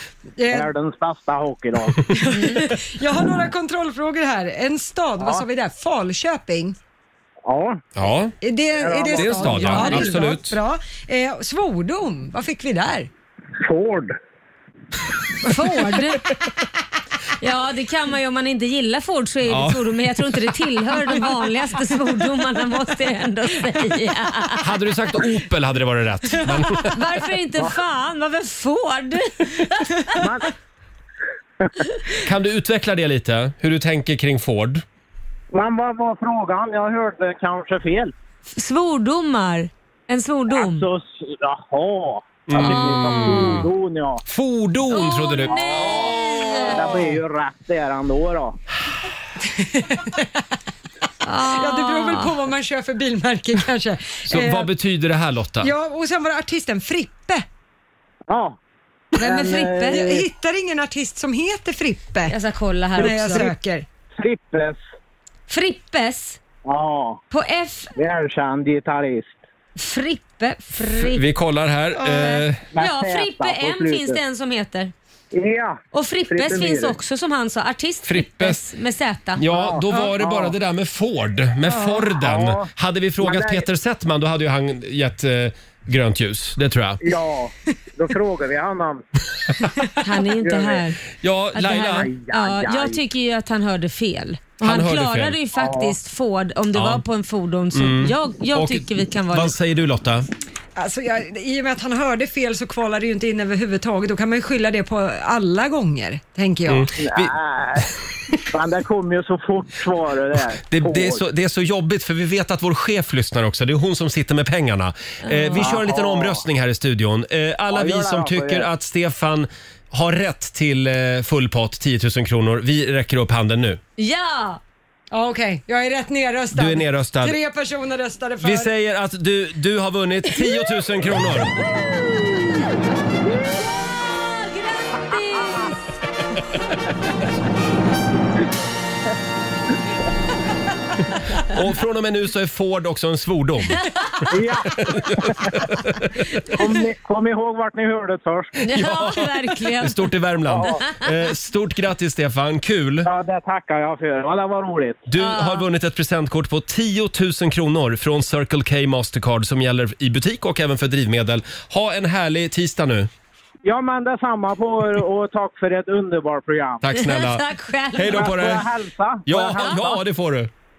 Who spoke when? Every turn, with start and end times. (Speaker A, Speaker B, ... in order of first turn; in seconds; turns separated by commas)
Speaker A: 0.4-0.7, Speaker B: 0.5-2.1, Speaker A: 2.1-6.8, Speaker C: 2.3-2.6, Speaker B: 7.5-7.8, Speaker D: 8.0-8.3, Speaker A: 8.4-13.1, Speaker B: 8.8-10.2, Speaker D: 9.2-10.6, Speaker B: 13.6-14.2, Speaker C: 15.4-16.3, Speaker C: 17.4-24.6, Speaker D: 19.5-20.0, Speaker D: 24.6-27.0, Speaker C: 26.9-30.2, Speaker B: 30.2-30.5, Speaker D: 32.2-34.8, Speaker B: 35.5-38.1, Speaker C: 38.5-40.9, Speaker B: 40.5-44.2, Speaker D: 42.5-43.7, Speaker C: 42.6-43.6, Speaker D: 44.3-45.7, Speaker C: 44.9-47.0, Speaker B: 45.5-46.1, Speaker B: 46.7-48.6, Speaker A: 49.6-50.2, Speaker C: 51.2-52.4, Speaker A: 51.4-54.7, Speaker D: 54.3-55.7, Speaker A: 55.6-57.5, Speaker B: 58.3-58.6, Speaker B: 59.2-60.2, Speaker A: 59.2-62.4, Speaker C: 59.2-60.1, Speaker C: 62.3-63.5, Speaker A: 63.0-63.9, Speaker B: 63.0-63.5, Speaker B: 64.2-64.8, Speaker C: 65.5-66.4, Speaker B: 66.7-67.2, Speaker C: 67.3-67.9, Speaker B: 68.0-69.4, Speaker C: 69.8-71.2, Speaker D: 71.0-72.7, Speaker B: 72.7-74.2, Speaker C: 72.8-74.9, Speaker B: 75.3-77.0, Speaker C: 75.9-79.4, Speaker D: 78.0-78.6, Speaker D: 79.4-87.0, Speaker B: 79.5-80.5, Speaker B: 82.1-82.7, Speaker B: 83.2-83.6, Speaker B: 87.0-89.0, Speaker C: 90.0-91.0, Speaker B: 90.4-90.8, Speaker D: 91.2-92.1, Speaker C: 91.5-99.5, Speaker B: 91.7-93.0, Speaker D: 94.6-95.4, Speaker B: 95.6-96.0, Speaker D: 96.7-97.0, Speaker D: 97.7-100.3, Speaker A: 100.8-107.0, Speaker D: 106.7-107.3, Speaker B: 107.0-111.2, Speaker D: 110.7-123.8, Speaker C: 115.2-115.8, Speaker B: 115.6-116.4, Speaker B: 117.7-118.7, Speaker C: 124.0-124.6, Speaker A: 125.1-128.7, Speaker D: 126.5-127.4, Speaker D: 128.4-131.5, Speaker C: 133.8-135.8, Speaker D: 141.4-143.8, Speaker B: 144.3-145.5, Speaker D: 144.9-146.0, Speaker B: 146.5-148.6, Speaker C: 148.6-150.0, Speaker D: 148.7-153.1, Speaker B: 153.0-155.0, Speaker D: 155.1-163.1, Speaker C: 155.2-155.7, Speaker B: 163.7-166.8, Speaker D: 166.8-168.7, Speaker C: 166.9-168.4, Speaker B: 168.0-170.0, Speaker D: 169.3-170.5